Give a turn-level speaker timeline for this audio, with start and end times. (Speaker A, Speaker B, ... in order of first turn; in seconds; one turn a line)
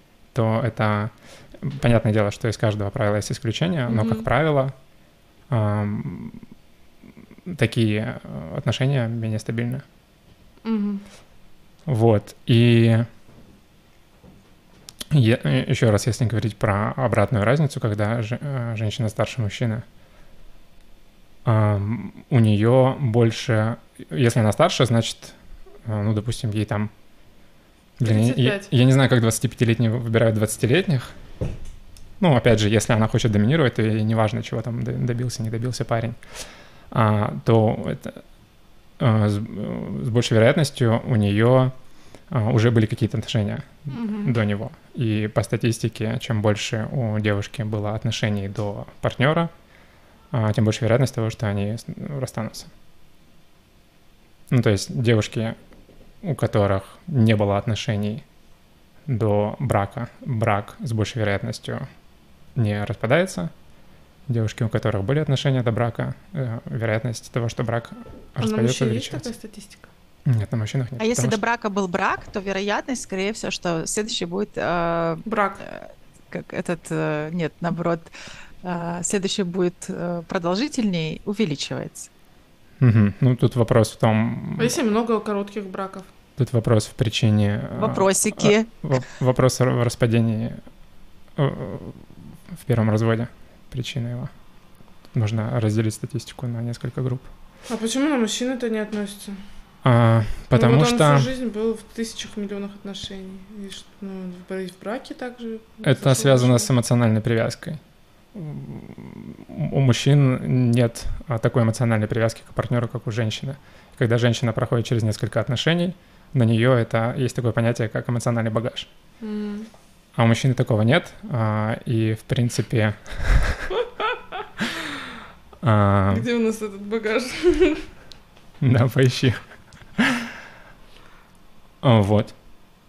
Speaker A: 0.3-4.7
Speaker B: 3.9-4.3
Speaker A: 5.5-6.4
Speaker A: 7.5-9.8
Speaker B: 10.6-11.0
Speaker A: 11.9-13.1
Speaker A: 15.1-19.9
Speaker A: 21.4-26.9
Speaker A: 28.0-31.1
Speaker B: 28.1-28.7
Speaker A: 32.2-36.2
Speaker A: 36.9-38.2
Speaker A: 39.0-41.7
Speaker A: 42.3-49.5
Speaker B: 43.9-44.3
Speaker A: 50.3-52.7
Speaker A: 54.5-55.6
Speaker A: 56.2-58.2
Speaker A: 59.1-61.9
Speaker A: 62.6-63.5
Speaker A: 64.3-69.3
Speaker B: 68.4-69.9
Speaker A: 70.3-71.4
Speaker C: 71.0-78.1
Speaker B: 75.2-75.6
Speaker C: 78.6-82.1
Speaker A: 82.8-84.8
Speaker B: 84.6-86.1
Speaker A: 86.4-90.6
Speaker C: 87.8-89.0
Speaker A: 91.4-94.3
Speaker A: 95.1-97.3
Speaker B: 97.7-99.4
Speaker A: 99.8-101.3
Speaker B: 100.5-106.7
Speaker A: 105.8-107.8
Speaker A: 108.3-118.9
Speaker B: 119.2-119.7
Speaker A: 120.2-123.7
Speaker A: 125.6-126.3
Speaker B: 126.1-127.9
Speaker A: 128.6-129.4
Speaker A: 130.0-130.3
Speaker A: 131.8-132.3